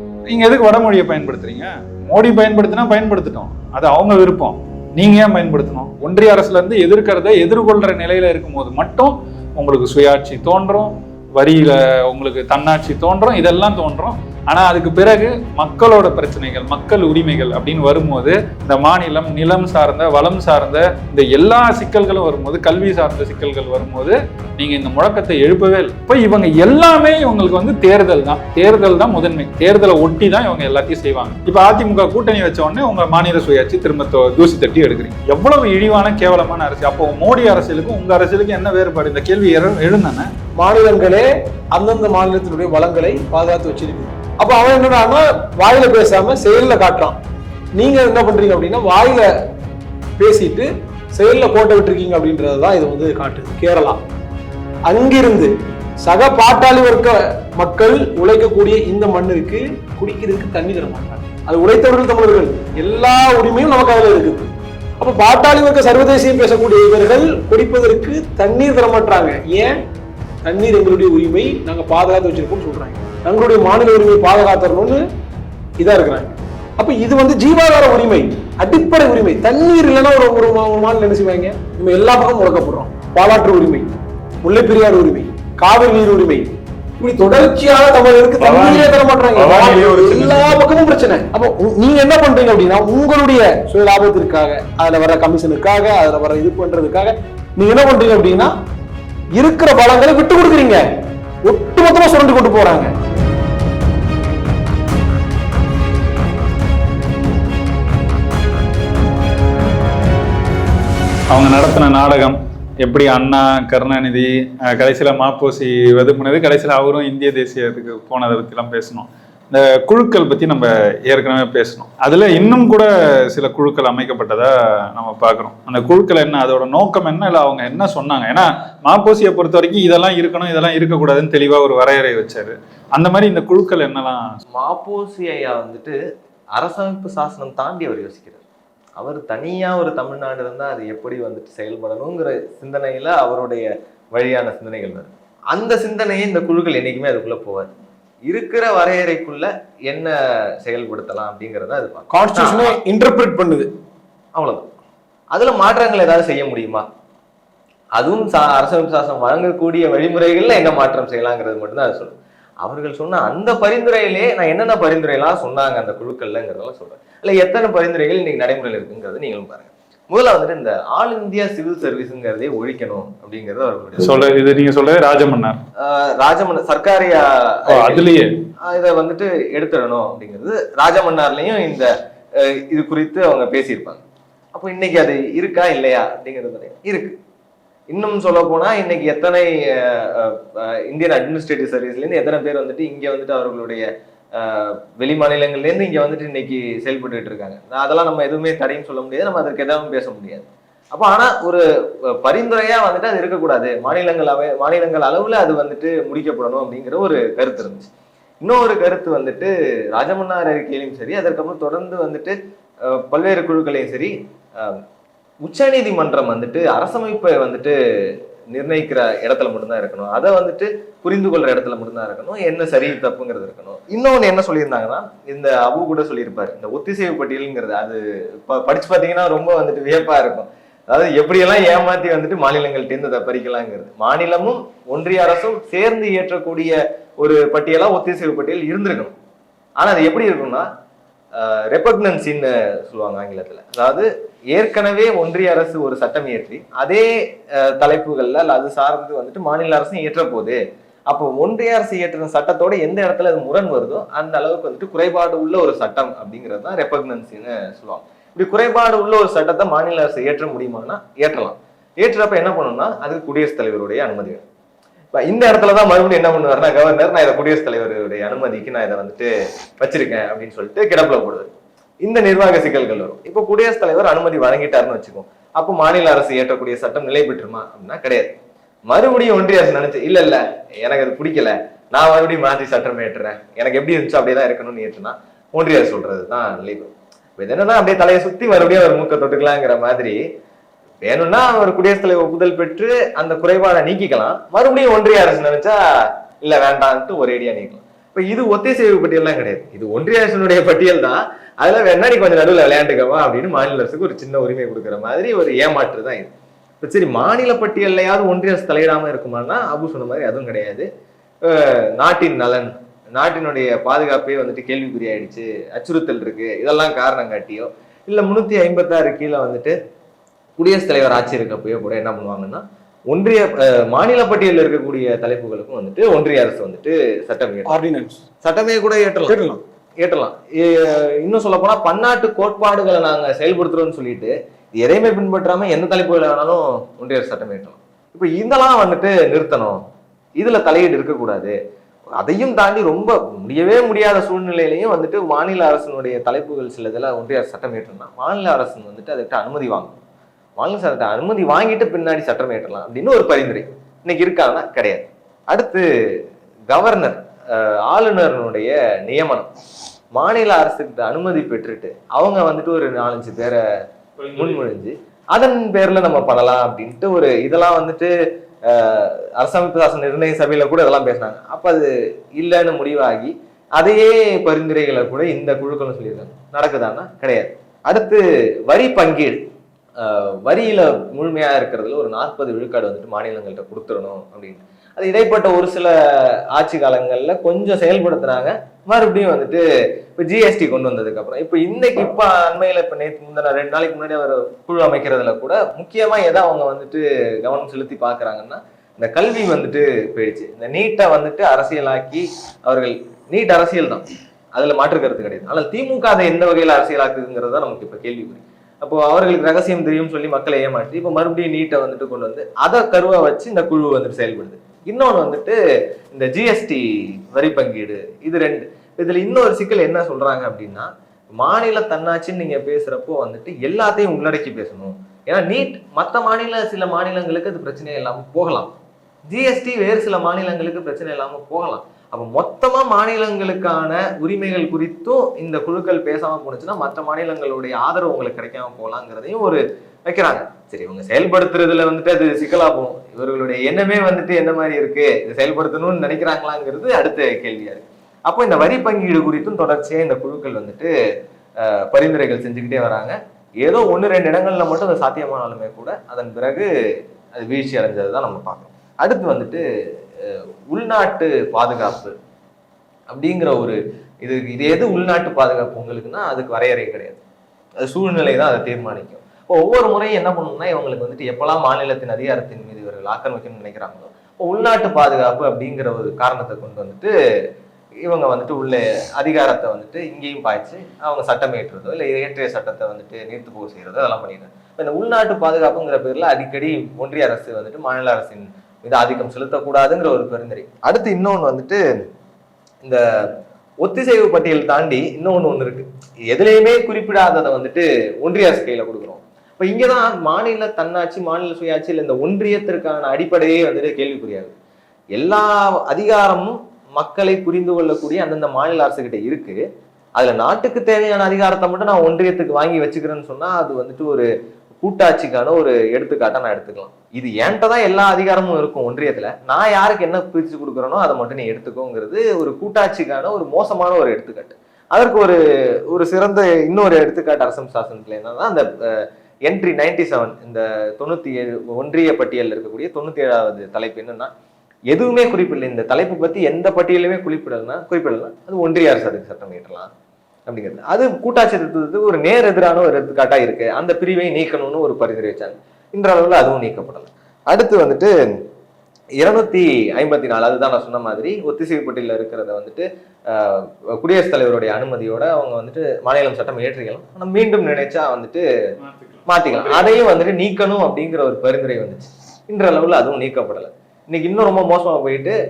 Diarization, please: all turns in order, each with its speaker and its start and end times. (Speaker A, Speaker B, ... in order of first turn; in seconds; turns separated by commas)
Speaker A: 0.3-40.3, Speaker B: 40.6-47.2, Speaker B: 47.8-49.3, Speaker B: 50.2-54.0, Speaker B: 54.9-69.8, Speaker B: 70.4-75.0, Speaker B: 75.8-83.9, Speaker B: 84.4-86.5, Speaker B: 87.0-98.5, Speaker A: 88.4-90.6, Speaker B: 99.3-100.8, Speaker B: 101.4-102.9, Speaker A: 111.3-134.3, Speaker C: 134.6-136.0, Speaker C: 136.5-138.4, Speaker C: 139.0-147.7, Speaker C: 148.3-152.7, Speaker B: 152.1-153.7, Speaker C: 154.3-154.7, Speaker C: 155.3-156.8, Speaker C: 157.9-174.2, Speaker A: 174.0-175.6, Speaker C: 175.8-178.1, Speaker A: 177.7-178.3, Speaker C: 178.6-184.0, Speaker C: 184.5-187.2, Speaker C: 187.9-207.9, Speaker C: 208.4-214.8, Speaker C: 215.4-217.8, Speaker C: 218.5-239.1, Speaker C: 239.8-240.7, Speaker C: 241.3-264.4, Speaker C: 265.1-271.5, Speaker C: 272.0-278.3, Speaker C: 278.9-290.2, Speaker C: 291.0-295.8, Speaker C: 296.4-306.3, Speaker C: 306.8-310.9, Speaker C: 311.4-319.8, Speaker C: 320.6-327.7, Speaker B: 327.7-328.2, Speaker C: 328.4-329.4, Speaker B: 329.3-329.6, Speaker C: 330.0-339.8, Speaker C: 340.4-341.6, Speaker C: 342.1-349.9, Speaker C: 350.6-355.9, Speaker C: 356.7-359.5, Speaker C: 360.1-363.6, Speaker A: 364.2-364.6, Speaker C: 364.3-368.1, Speaker C: 368.6-379.4, Speaker C: 380.0-385.9, Speaker C: 386.5-389.6, Speaker C: 390.2-415.6, Speaker C: 416.1-428.7, Speaker C: 429.3-450.9, Speaker C: 451.6-456.7, Speaker C: 457.3-459.6, Speaker C: 460.2-462.1, Speaker C: 463.1-467.2, Speaker C: 467.8-477.1, Speaker C: 478.0-491.8, Speaker C: 492.8-493.3, Speaker C: 493.8-504.5, Speaker C: 505.1-509.6, Speaker C: 510.1-534.3, Speaker C: 534.9-539.9, Speaker C: 540.5-548.1, Speaker C: 549.2-558.4, Speaker A: 558.8-559.9, Speaker C: 559.3-565.4